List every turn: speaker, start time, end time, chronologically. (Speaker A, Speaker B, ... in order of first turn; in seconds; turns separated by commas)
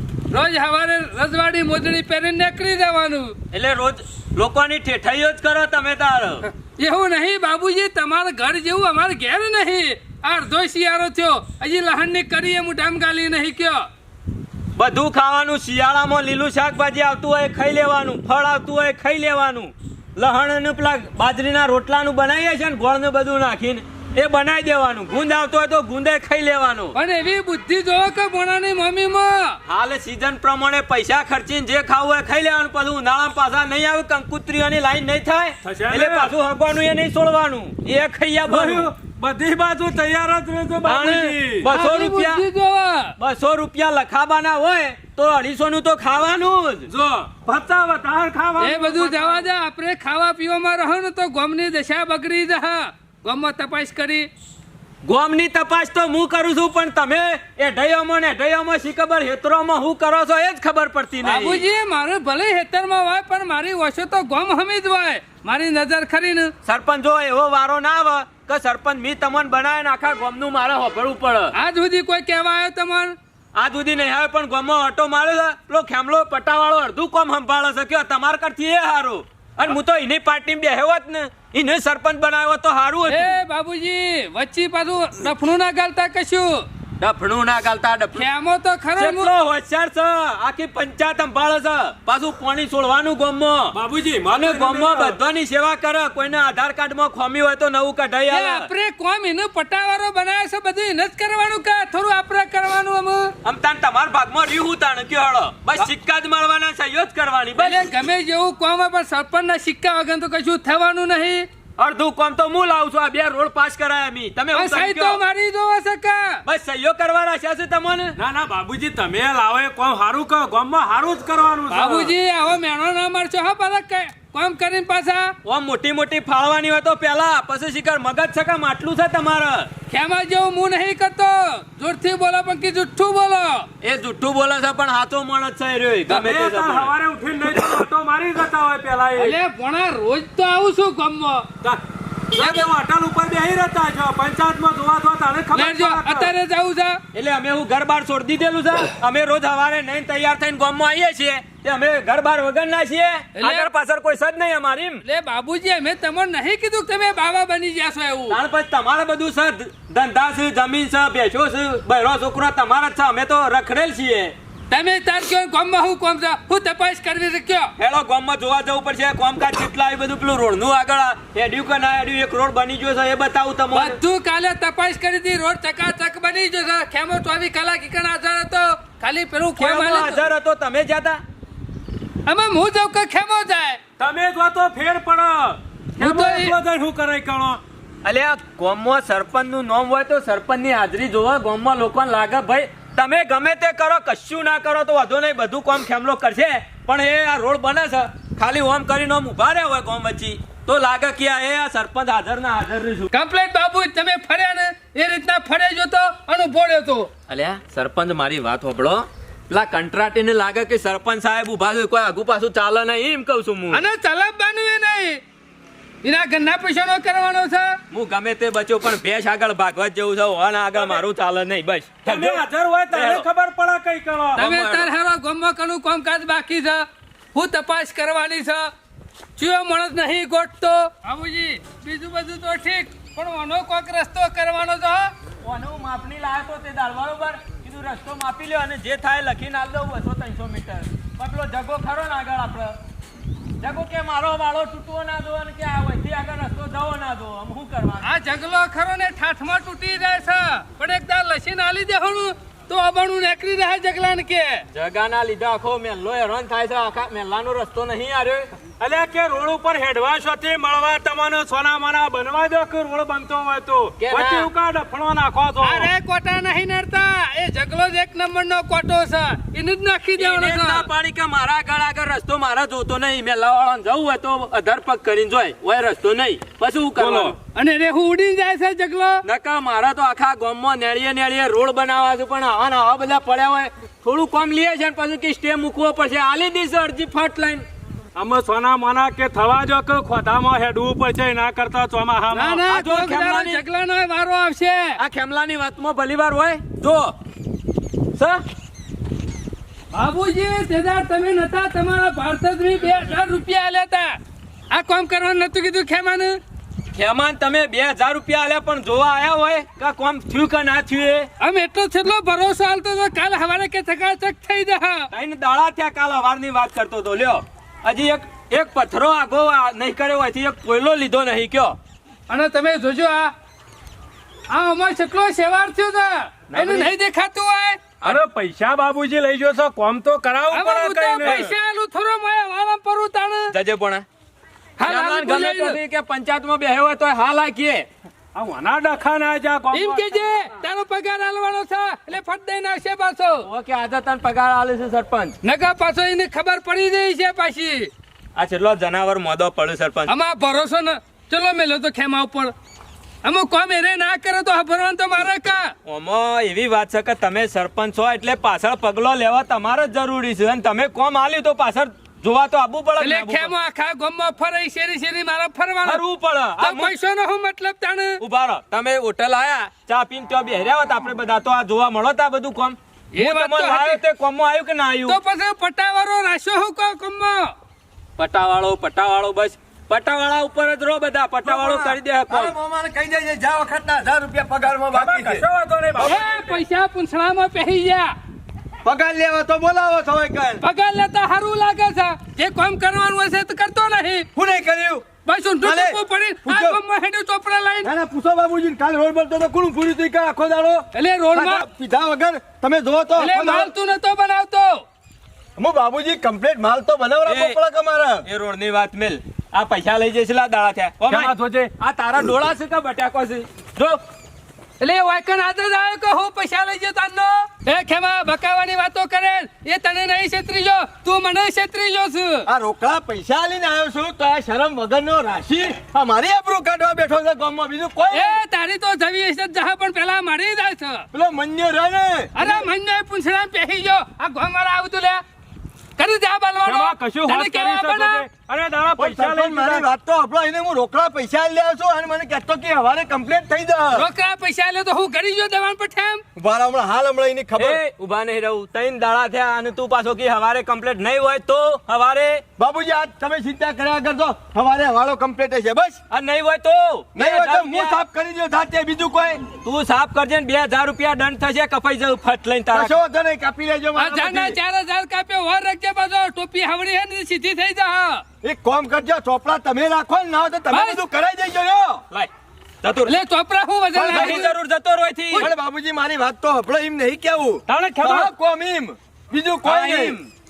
Speaker A: 0.3-3.4, Speaker B: 3.5-6.5, Speaker A: 6.8-13.9, Speaker B: 14.8-26.9, Speaker A: 26.9-29.6, Speaker B: 29.7-38.9, Speaker C: 35.6-36.3, Speaker C: 38.5-41.7, Speaker B: 40.8-42.4, Speaker A: 41.7-43.1, Speaker B: 43.2-46.9, Speaker C: 46.9-49.5, Speaker A: 48.6-54.3, Speaker B: 55.0-61.6, Speaker A: 61.2-66.5, Speaker B: 66.7-71.5, Speaker A: 71.5-73.2, Speaker B: 73.5-83.4, Speaker A: 83.1-86.7, Speaker B: 87.0-88.2, Speaker A: 88.1-89.3, Speaker B: 89.0-93.7, Speaker C: 93.7-95.2, Speaker B: 94.3-98.7, Speaker A: 98.3-103.3, Speaker B: 103.4-107.9, Speaker A: 107.6-111.5, Speaker B: 111.8-115.2, Speaker A: 114.5-116.4, Speaker B: 116.4-118.2, Speaker C: 118.2-122.1, Speaker A: 121.7-125.3, Speaker B: 125.4-129.7, Speaker A: 129.9-133.7, Speaker B: 133.8-136.9, Speaker C: 136.1-139.3, Speaker A: 139.2-141.5, Speaker B: 142.3-142.7, Speaker A: 142.3-142.7, Speaker C: 142.5-146.3, Speaker A: 145.5-147.0, Speaker B: 147.1-155.0, Speaker A: 153.4-153.7, Speaker A: 155.0-158.4, Speaker B: 158.3-164.3, Speaker A: 164.7-167.7, Speaker B: 167.8-174.0, Speaker A: 173.7-180.2, Speaker B: 179.6-181.2, Speaker A: 182.2-183.8, Speaker C: 184.0-187.6, Speaker A: 186.0-186.6, Speaker B: 188.0-203.1, Speaker A: 203.1-207.1, Speaker B: 207.3-213.8, Speaker A: 213.7-215.2, Speaker A: 216.0-217.8, Speaker B: 217.9-223.2, Speaker C: 220.8-221.0, Speaker C: 222.0-224.5, Speaker A: 224.3-228.7, Speaker B: 224.4-224.9, Speaker A: 229.4-235.1, Speaker B: 235.4-242.8, Speaker B: 243.6-248.1, Speaker A: 248.0-254.6, Speaker B: 254.7-258.5, Speaker C: 258.8-265.9, Speaker B: 264.0-264.5, Speaker A: 265.6-270.9, Speaker B: 270.2-277.4, Speaker C: 277.0-277.4, Speaker A: 277.5-279.2, Speaker B: 279.2-287.6, Speaker C: 288.1-292.6, Speaker A: 292.3-295.0, Speaker B: 292.6-293.6, Speaker B: 295.0-297.1, Speaker B: 298.2-298.4, Speaker A: 299.9-304.2, Speaker A: 304.7-306.4, Speaker B: 306.9-311.3, Speaker A: 311.4-315.1, Speaker B: 315.1-321.8, Speaker A: 322.3-323.3, Speaker A: 324.5-327.8, Speaker B: 326.5-326.9, Speaker C: 328.0-331.5, Speaker A: 330.5-333.5, Speaker B: 331.2-331.5, Speaker B: 333.5-334.0, Speaker A: 334.8-335.8, Speaker B: 334.8-337.9, Speaker C: 338.3-340.3, Speaker A: 339.7-343.5, Speaker B: 343.4-345.4, Speaker A: 345.4-347.9, Speaker B: 348.4-350.1, Speaker A: 350.1-352.5, Speaker A: 353.2-355.7, Speaker B: 355.9-363.5, Speaker A: 363.0-366.0, Speaker B: 365.8-366.9, Speaker A: 366.6-368.2, Speaker B: 368.2-375.2, Speaker A: 373.1-374.0, Speaker A: 375.1-377.5, Speaker B: 378.2-382.5, Speaker D: 381.4-386.2, Speaker C: 384.9-386.6, Speaker A: 386.0-388.1, Speaker D: 388.8-390.6, Speaker A: 390.6-394.3, Speaker D: 394.3-395.1, Speaker A: 395.2-397.9, Speaker D: 395.6-396.8, Speaker D: 397.8-403.7, Speaker A: 400.9-401.6, Speaker A: 403.2-404.8, Speaker D: 405.6-408.2, Speaker B: 407.2-407.6, Speaker B: 408.2-414.0, Speaker C: 411.1-411.7, Speaker A: 414.8-422.5, Speaker D: 422.4-428.4, Speaker A: 428.1-431.1, Speaker D: 431.1-432.6, Speaker A: 432.3-435.2, Speaker A: 436.0-438.2, Speaker C: 436.6-439.9, Speaker D: 439.0-444.1, Speaker A: 443.9-446.2, Speaker D: 446.4-447.8, Speaker B: 447.6-452.4, Speaker D: 452.6-456.0, Speaker B: 456.1-458.0, Speaker D: 457.1-459.4, Speaker B: 459.6-462.9, Speaker D: 462.7-464.6, Speaker A: 463.9-468.2, Speaker D: 468.4-472.0, Speaker A: 470.7-471.0, Speaker B: 472.8-473.2, Speaker A: 473.1-474.5, Speaker D: 473.9-474.5, Speaker B: 474.0-475.5, Speaker D: 475.3-480.2, Speaker C: 477.7-478.3, Speaker B: 479.6-480.3